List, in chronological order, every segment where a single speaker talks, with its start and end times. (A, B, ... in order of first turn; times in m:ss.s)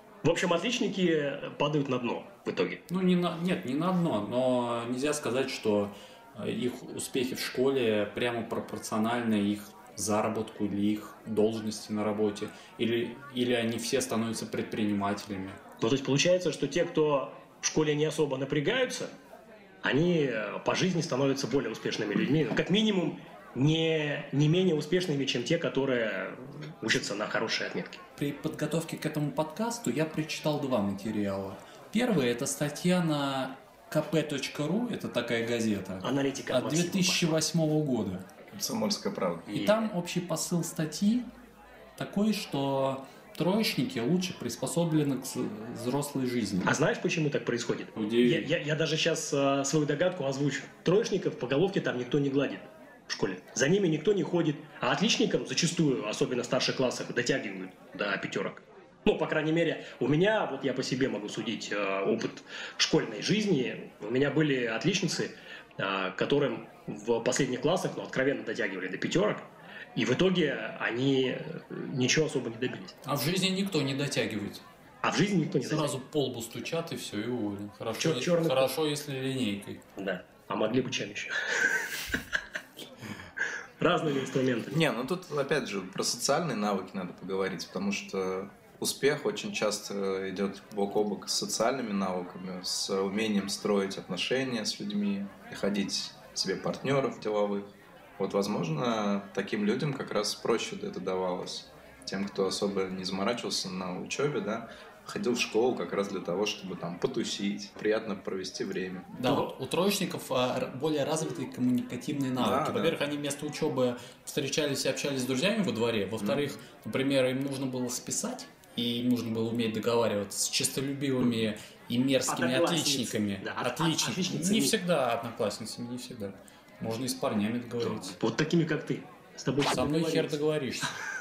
0:00.2-0:02.8 A
0:02.9-0:15.6 B
0:15.8-0:19.1 A
0:19.8-0:28.0 A
0:28.2-0:38.3 B
0:36.0-0:37.4 A
0:38.5-0:39.5 C
0:39.5-0:39.9 A
0:39.5-0:41.3 B
0:42.0-0:46.8 B
0:46.6-1:13.0 A
0:47.9-0:48.5 B
1:13.0-1:14.6 B
1:15.0-1:16.0 A
1:15.6-1:19.8 B
1:18.0-1:18.7 A
1:20.0-1:22.2 A
1:23.8-1:24.8 A
1:24.7-1:49.1 C
1:49.1-2:08.2 B
1:49.2-1:49.5 A
1:52.4-1:53.0 C
1:56.2-1:56.5 C
2:02.3-2:04.8 A
2:07.8-2:10.5 A
2:09.7-2:11.0 B